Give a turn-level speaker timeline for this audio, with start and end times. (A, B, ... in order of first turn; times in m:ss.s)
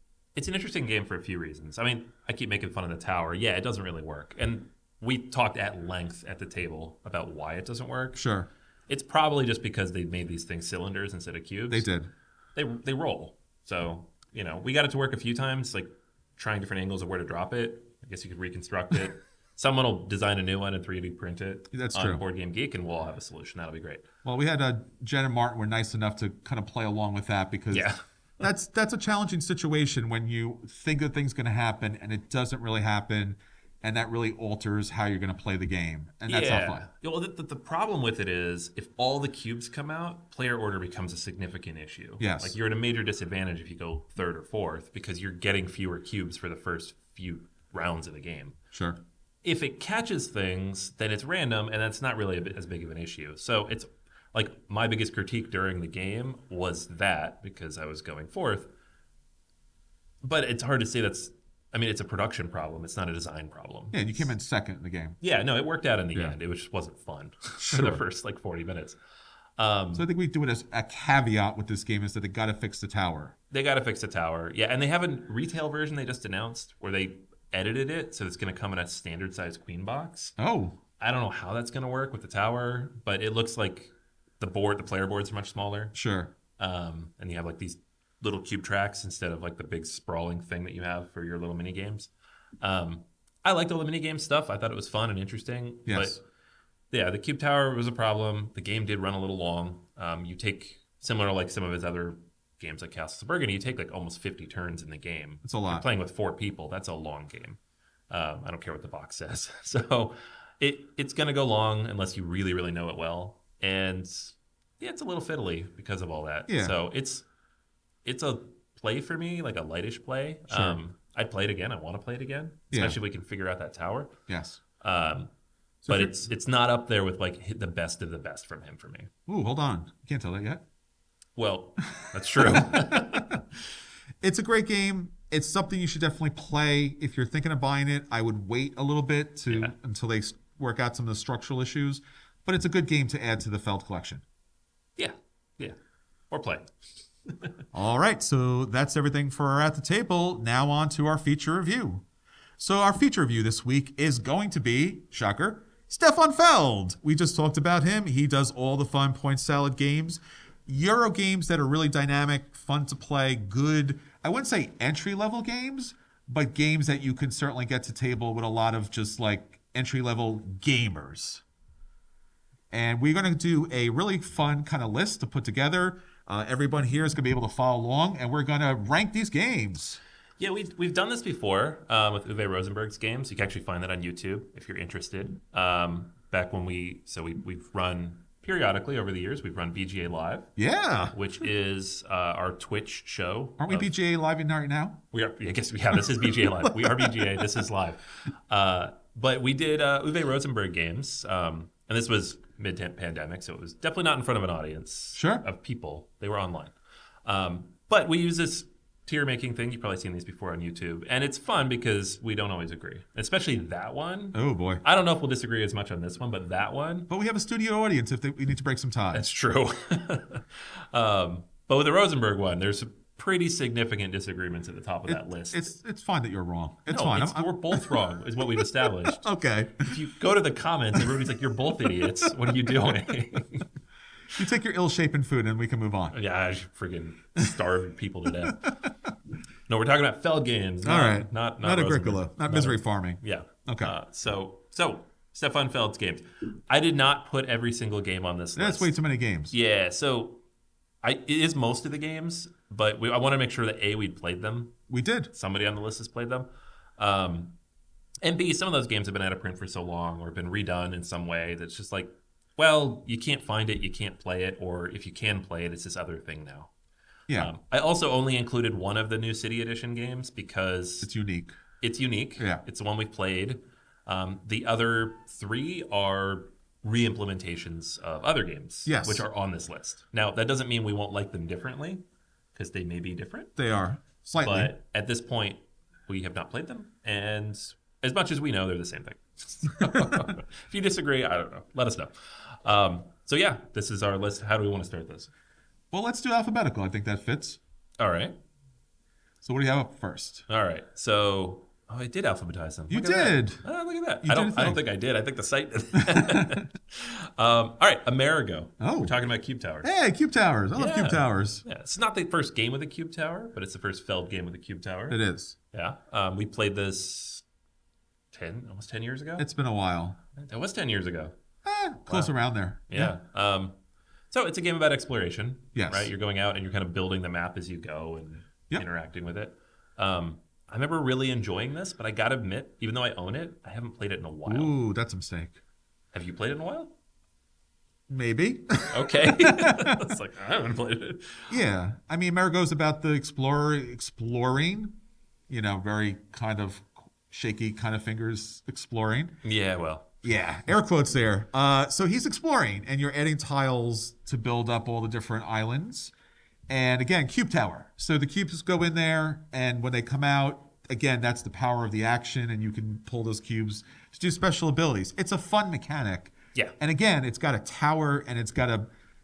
0:00.3-0:08.2 A
0:08.1-0:08.5 B
0:08.9-0:11.9 A
0:11.7-0:12.1 B
0:12.5-0:24.1 A
0:21.7-0:22.2 B
0:24.2-0:36.8 B
0:27.7-0:28.0 A
0:36.3-0:48.6 A
0:42.2-0:42.6 B
0:48.7-0:49.0 B
0:49.4-0:58.7 A
1:00.2-1:04.3 A
1:03.9-1:05.2 B
1:05.2-1:09.0 A
1:07.6-1:08.0 B
1:09.6-1:10.0 A
1:09.9-1:13.3 B
1:13.5-1:20.3 A
1:20.4-1:20.8 B
1:21.0-1:25.9 A
1:25.9-1:26.3 B
1:26.6-1:32.1 A
1:32.6-1:36.2 A
1:35.9-1:36.2 B
1:36.9-1:47.6 A
1:45.4-1:45.9 B
1:48.1-1:57.2 A
1:56.5-1:56.8 B
1:58.0-2:04.1 A
2:00.5-2:00.8 B
2:02.7-2:03.0 B
2:04.3-2:04.6 B
2:04.8-2:05.3 A
2:05.8-2:06.1 B
2:05.8-2:09.1 A
2:09.3-2:10.6 B
2:11.4-2:13.4 A
2:12.0-2:13.4 B
2:14.2-2:24.2 B
2:25.0-2:25.8 A
2:26.3-2:26.7 A
2:27.7-2:32.0 B
2:32.6-2:51.4 B
2:52.7-3:00.0 B
3:00.4-3:13.9 A
3:10.6-3:11.1 B
3:13.6-3:15.0 B
3:15.1-3:26.7 A
3:16.8-3:17.3 B
3:25.1-3:25.4 B
3:27.2-3:37.1 A
3:34.3-3:34.8 B
3:37.1-3:39.3 B
3:39.1-3:45.7 A
3:45.1-3:47.9 B
3:46.9-3:49.2 A
3:48.6-3:50.0 B
3:49.8-3:53.7 A
3:51.9-3:52.2 B
3:54.4-3:56.1 B
3:56.1-3:58.9 A
3:59.7-4:08.9 A
4:00.8-4:03.9 B
4:08.5-4:09.5 B
4:09.5-4:10.4 A
4:11.0-4:14.8 A
4:14.9-4:15.3 B
4:15.3-4:17.5 A
4:18.2-4:26.7 A
4:27.4-4:31.1 A
4:31.0-4:31.5 B
4:31.8-4:42.0 A
4:32.4-4:32.6 B
4:38.8-4:39.3 B
4:42.5-4:43.5 A
4:43.6-4:44.7 B
4:44.4-4:55.3 A
4:49.9-4:50.2 B
4:55.9-4:57.6 B
4:58.0-4:58.4 A
4:59.4-5:00.4 B
5:00.5-5:09.9 A
5:02.9-5:03.6 B
5:04.2-5:04.8 B
5:06.0-5:06.6 B
5:08.8-5:09.2 B
5:09.8-5:11.6 B
5:10.7-5:15.2 A
5:15.1-5:15.5 B
5:15.7-5:17.4 A
5:18.3-5:19.4 A
5:19.4-5:20.2 B
5:20.4-5:21.3 A
5:21.6-5:23.1 B
5:22.1-5:22.3 A
5:22.9-5:23.8 A
5:24.3-5:34.7 A
5:25.7-5:26.1 B
5:34.4-5:35.6 B
5:36.1-5:36.9 A
5:38.1-5:40.1 B
5:38.9-5:41.6 A
5:41.5-5:45.0 B
5:45.5-5:49.4 B
5:49.4-5:50.1 A
5:50.2-5:56.1 B
5:56.7-6:08.9 B